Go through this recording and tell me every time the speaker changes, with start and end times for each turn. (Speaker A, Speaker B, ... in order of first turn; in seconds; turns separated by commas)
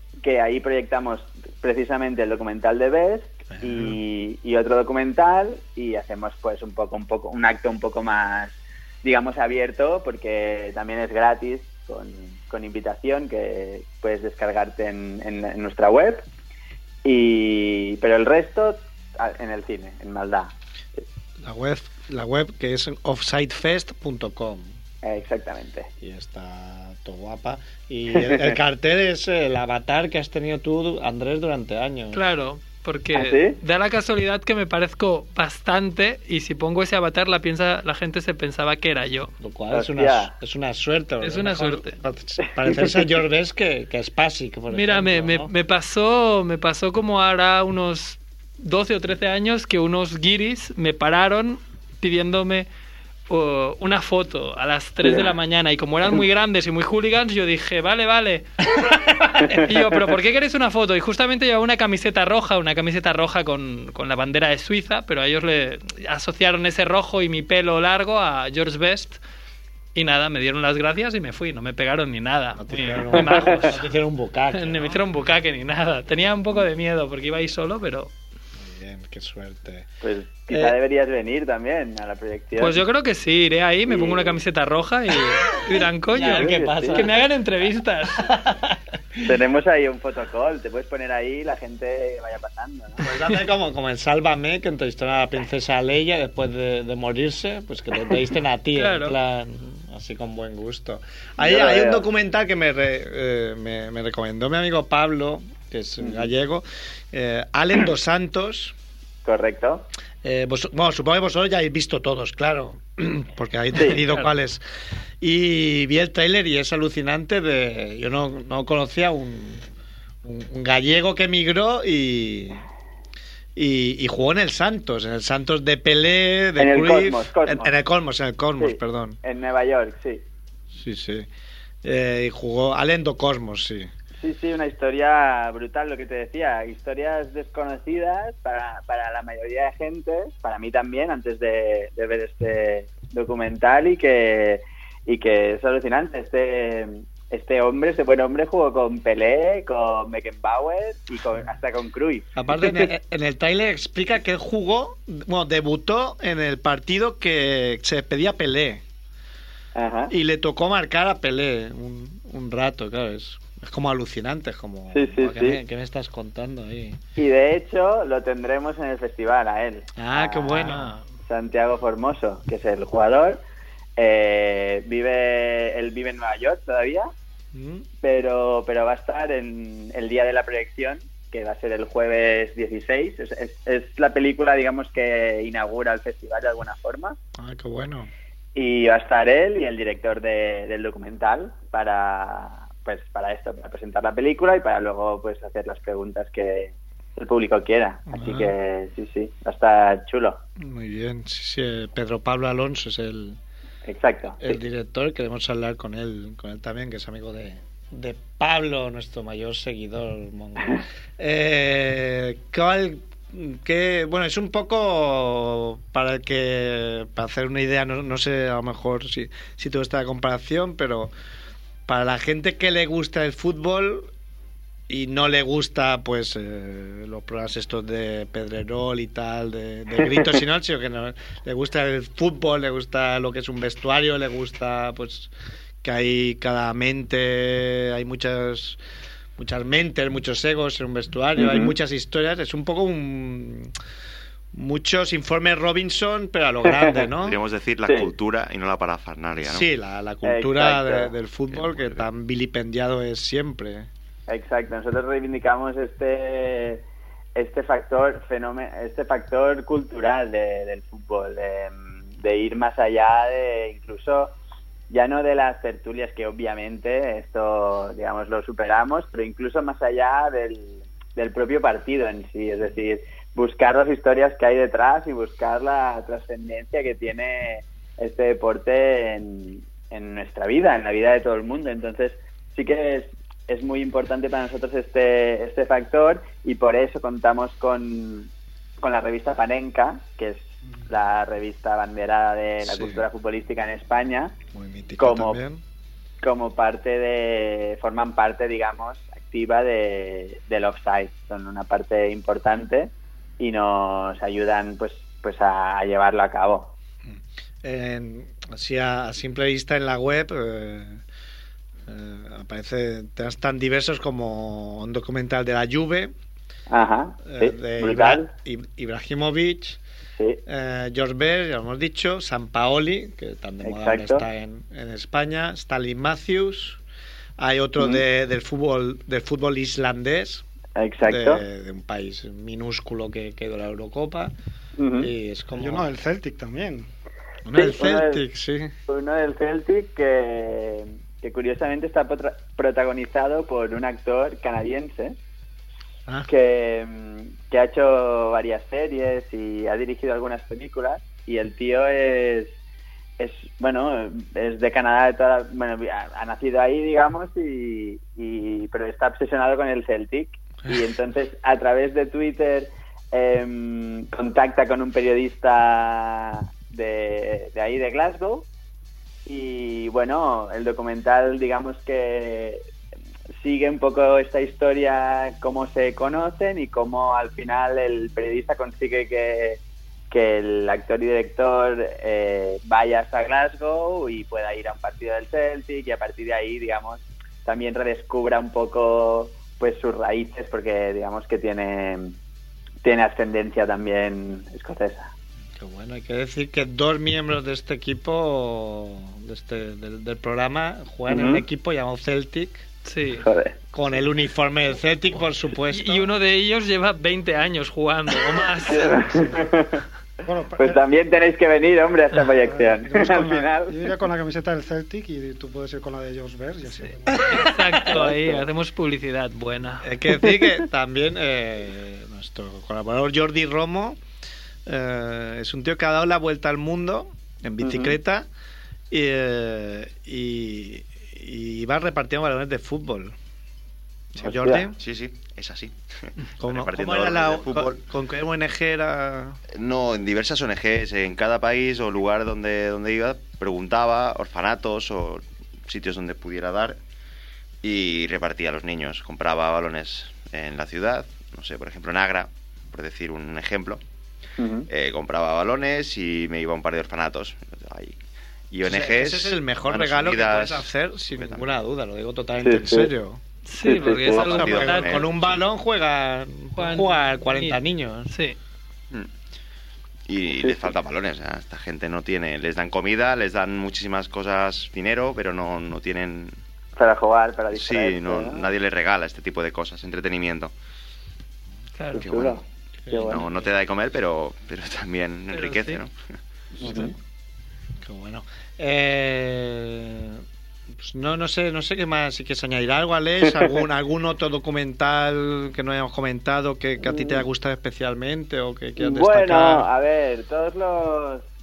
Speaker A: 0.2-16.2, Speaker B: 3.5-3.9, Speaker A: 17.1-21.0, Speaker B: 21.4-24.8, Speaker A: 25.0-25.9, Speaker B: 26.0-32.2, Speaker A: 28.1-28.6, Speaker C: 32.1-39.3, Speaker A: 33.1-33.6, Speaker B: 39.4-45.5, Speaker A: 39.7-40.3, Speaker C: 41.2-42.0, Speaker A: 42.6-43.0, Speaker C: 44.7-52.7, Speaker C: 53.3-69.2, Speaker A: 59.4-59.9, Speaker C: 70.0-73.8, Speaker B: 72.6-75.0, Speaker A: 73.3-73.6, Speaker C: 74.5-78.1, Speaker B: 78.6-79.9, Speaker A: 80.0-82.8, Speaker B: 80.5-80.8, Speaker C: 82.6-88.3, Speaker A: 83.9-84.3, Speaker B: 86.1-87.3, Speaker A: 86.3-87.0, Speaker B: 88.2-89.2, Speaker A: 89.2-93.0, Speaker B: 93.0-108.8, Speaker C: 98.8-99.2, Speaker A: 101.4-102.0, Speaker A: 109.2-109.9, Speaker B: 110.2-114.6, Speaker B: 115.2-119.6, Speaker B: 120.2-122.6, Speaker B: 123.5-129.2, Speaker A: 126.6-127.7, Speaker A: 128.6-130.2, Speaker B: 130.7-131.3, Speaker B: 131.8-133.9, Speaker A: 134.2-152.9, Speaker B: 152.4-158.8, Speaker A: 159.8-160.1, Speaker B: 160.1-167.0, Speaker A: 164.9-165.6, Speaker A: 167.2-173.4, Speaker B: 170.0-171.0, Speaker C: 170.7-171.0, Speaker A: 174.0-177.1, Speaker B: 177.5-177.9, Speaker A: 178.0-187.2, Speaker B: 187.4-188.1, Speaker A: 188.6-200.4, Speaker B: 198.1-198.5, Speaker B: 200.6-203.4, Speaker A: 203.9-204.6, Speaker B: 204.4-221.1, Speaker B: 221.9-224.1, Speaker B: 224.9-235.3, Speaker A: 230.0-230.4, Speaker B: 235.8-238.8, Speaker B: 239.4-243.7, Speaker A: 241.4-241.7, Speaker B: 244.5-247.4, Speaker A: 246.7-247.0, Speaker D: 247.2-249.7, Speaker A: 247.9-248.1, Speaker B: 249.4-253.9, Speaker A: 250.2-251.1, Speaker D: 251.5-252.0, Speaker A: 254.3-256.8, Speaker A: 257.4-264.4, Speaker A: 264.9-288.3, Speaker A: 288.8-294.4, Speaker B: 292.7-293.0, Speaker B: 294.5-295.6, Speaker A: 295.0-295.4, Speaker A: 296.2-306.7, Speaker B: 307.1-311.0, Speaker B: 311.9-316.1, Speaker A: 316.7-318.3, Speaker B: 317.2-319.8, Speaker B: 320.5-326.8, Speaker A: 323.6-324.2, Speaker B: 327.4-330.4, Speaker A: 330.8-331.4, Speaker B: 331.0-334.3, Speaker A: 334.8-335.1, Speaker B: 335.0-335.9, Speaker E: 335.6-336.9, Speaker B: 337.4-338.7, Speaker A: 337.5-338.2, Speaker A: 338.9-345.2, Speaker A: 346.3-352.6, Speaker A: 353.2-368.5, Speaker A: 369.3-372.6, Speaker A: 373.4-379.6, Speaker A: 380.1-392.2, Speaker A: 392.8-395.1, Speaker B: 395.6-402.6, Speaker A: 401.1-401.4, Speaker C: 402.9-403.2, Speaker A: 403.2-403.6, Speaker B: 403.7-406.1, Speaker C: 405.7-409.0, Speaker A: 408.7-409.8, Speaker E: 410.3-410.8, Speaker A: 410.6-413.7, Speaker E: 412.4-418.0, Speaker C: 417.2-419.9, Speaker B: 419.8-424.0, Speaker A: 420.2-420.6, Speaker B: 424.7-428.3, Speaker A: 427.6-427.9, Speaker B: 428.9-433.2, Speaker B: 434.1-434.8, Speaker A: 434.3-434.7, Speaker D: 434.8-435.8, Speaker B: 436.4-439.4, Speaker D: 436.4-437.8, Speaker D: 439.5-446.8, Speaker D: 447.6-453.8, Speaker A: 454.4-454.7, Speaker D: 454.7-458.0, Speaker D: 458.5-461.5, Speaker B: 458.6-463.2, Speaker A: 462.4-462.9, Speaker C: 463.5-465.1, Speaker A: 463.6-464.4, Speaker D: 463.9-465.4, Speaker B: 464.0-468.1, Speaker C: 466.6-468.4, Speaker D: 470.1-476.3, Speaker A: 470.4-470.7, Speaker A: 476.8-478.4, Speaker D: 477.5-480.5, Speaker C: 481.8-482.1, Speaker D: 481.9-482.4, Speaker A: 482.0-483.3, Speaker B: 482.9-483.3, Speaker D: 483.1-485.9, Speaker C: 485.3-485.8, Speaker B: 486.6-486.9, Speaker A: 486.6-486.9, Speaker B: 487.8-499.7, Speaker A: 493.2-493.6, Speaker A: 496.9-497.1, Speaker A: 498.8-501.3